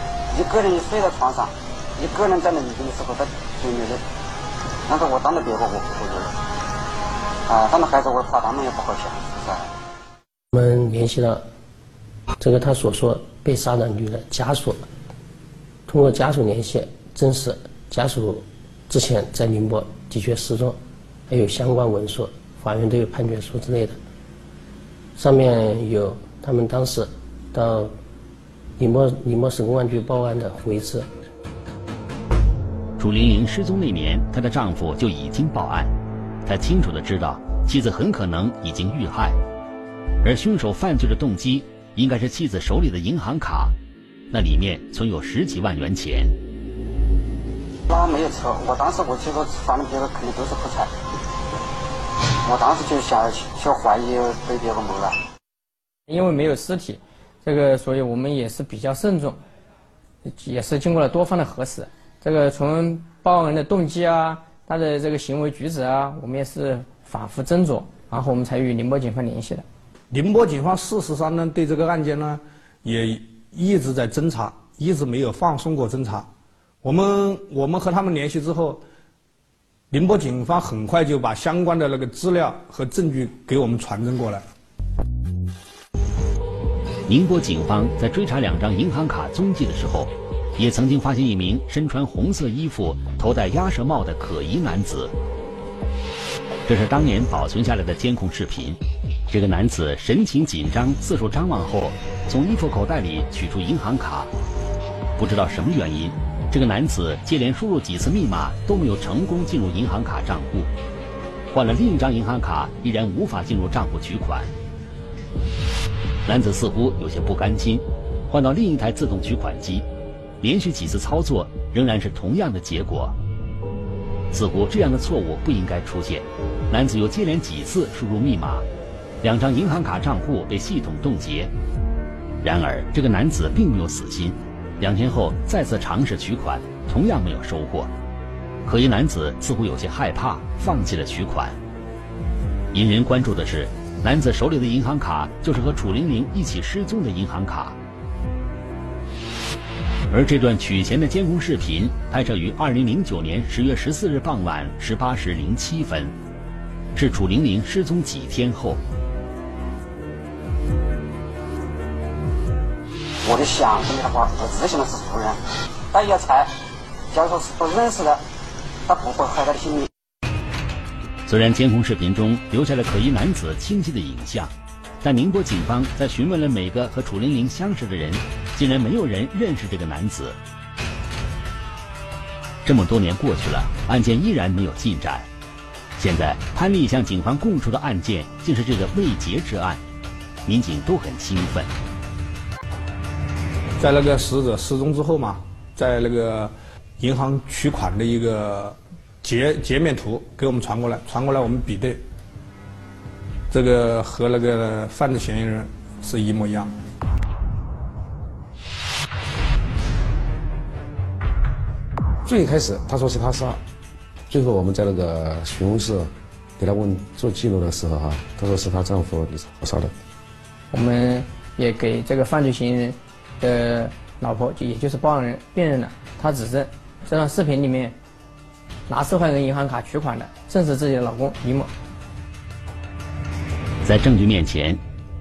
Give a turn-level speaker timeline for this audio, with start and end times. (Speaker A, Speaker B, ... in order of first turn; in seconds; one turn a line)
Speaker A: 0.3-4.0
Speaker A: 4.9-6.3
Speaker A: 7.5-9.7
Speaker B: 10.5-11.4
Speaker B: 12.4-14.8
Speaker B: 15.9-24.0
Speaker B: 25.1-27.9
Speaker B: 28.8-31.1
Speaker C: 33.0-35.9
Speaker C: 36.4-39.4
Speaker C: 40.2-43.7
Speaker C: 44.3-46.4
Speaker A: 47.9-50.9
Speaker A: 52.4-55.2
Speaker D: 56.1-59.4
Speaker D: 60.2-69.6
Speaker E: 70.1-76.3
Speaker E: 76.8-78.8
Speaker E: 79.9-84.4
Speaker C: 87.1-95.1
Speaker C: 96.7-104.3
Speaker C: 105.2-110.7
Speaker C: 111.5-114.5
Speaker C: 116.2-119.9
Speaker C: 120.4-123.1
Speaker C: 124.3-128.7
Speaker C: 129.2-131.5
Speaker C: 132.4-137.9
Speaker C: 138.6-141.6
Speaker C: 142.7-147.8
Speaker C: 150.1-156.1
Speaker C: 156.9-158.8
Speaker A: 163.2-165.4
Speaker A: 165.9-166.5
Speaker A: 167.1-168.2
Speaker A: 168.9-169.9
Speaker C: 171.3-180.4
Speaker C: 182.6-185.3
Speaker C: 186.0-189.8
Speaker C: 190.4-191.7
Speaker E: 193.8-202.0
Speaker E: 203.5-206.7
Speaker F: 212.2-213.6
Speaker F: 214.3-219.9
Speaker D: 220.7-227.9
Speaker D: 228.9-231.7
Speaker C: 233.8-234.8